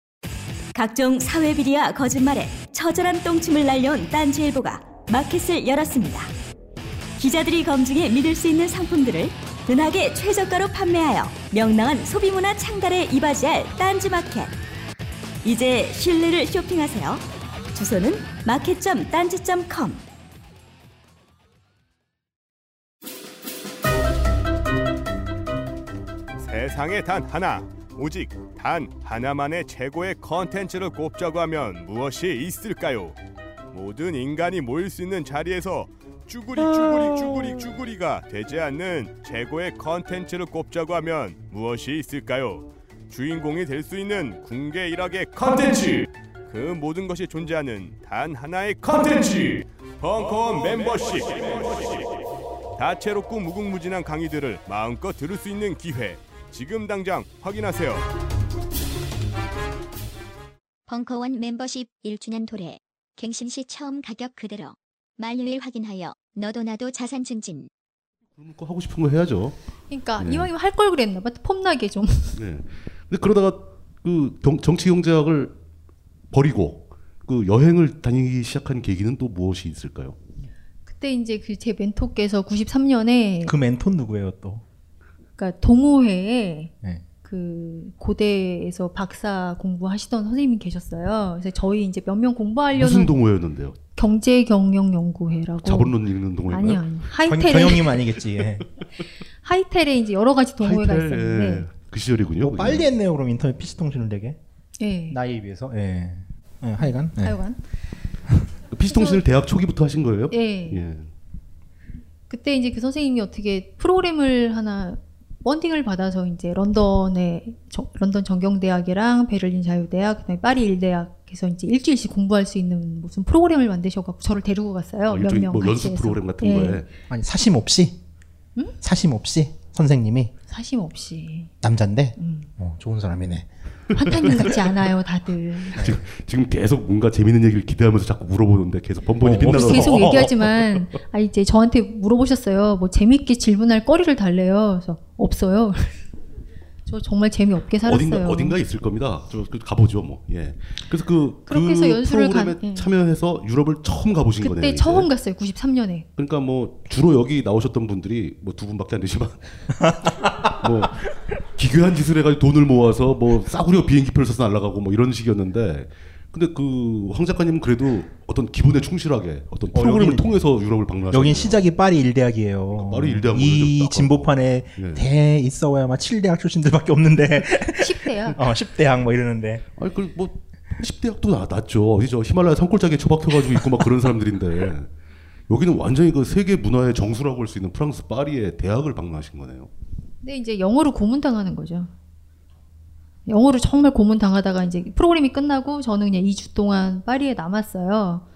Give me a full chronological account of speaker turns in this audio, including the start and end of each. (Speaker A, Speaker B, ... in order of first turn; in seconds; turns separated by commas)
Speaker A: 0.7-6.3, Speaker A: 7.2-14.5, Speaker A: 15.4-20.0, Speaker B: 26.4-33.2, Speaker B: 33.7-52.2, Speaker B: 52.8-58.1, Speaker C: 60.9-67.7, Speaker D: 68.3-69.6, Speaker E: 69.9-72.4, Speaker D: 70.2-70.5, Speaker D: 72.3-75.5, Speaker D: 76.3-80.2, Speaker E: 80.8-83.5, Speaker F: 83.4-84.6, Speaker E: 85.4-86.7, Speaker E: 87.2-93.1, Speaker D: 92.7-93.8, Speaker E: 94.0-96.0, Speaker D: 95.6-97.0, Speaker E: 96.5-97.9, Speaker F: 97.2-98.7, Speaker E: 99.4-101.7, Speaker D: 100.6-102.9, Speaker F: 102.4-104.4, Speaker E: 104.8-105.2, Speaker F: 105.1-107.4, Speaker E: 106.8-107.6, Speaker D: 108.7-111.1, Speaker E: 108.9-109.2, Speaker E: 110.3-110.8, Speaker E: 112.3-126.8, Speaker D: 125.1-126.9, Speaker F: 127.1-128.0, Speaker F: 128.8-130.3, Speaker E: 130.5-131.5, Speaker F: 131.6-133.5, Speaker E: 132.2-132.5, Speaker E: 133.9-135.8, Speaker D: 135.8-140.8, Speaker F: 139.2-140.3, Speaker E: 139.5-146.0, Speaker E: 146.8-148.6, Speaker D: 147.8-155.1, Speaker E: 151.5-152.9, Speaker E: 154.4-156.1, Speaker D: 156.2-159.7, Speaker F: 160.0-160.5, Speaker D: 160.5-171.6, Speaker F: 169.7-170.4, Speaker F: 171.1-179.6, Speaker D: 172.7-175.1, Speaker E: 177.8-178.4, Speaker D: 179.8-184.9, Speaker D: 185.5-189.7, Speaker E: 190.2-191.9, Speaker E: 193.3-198.2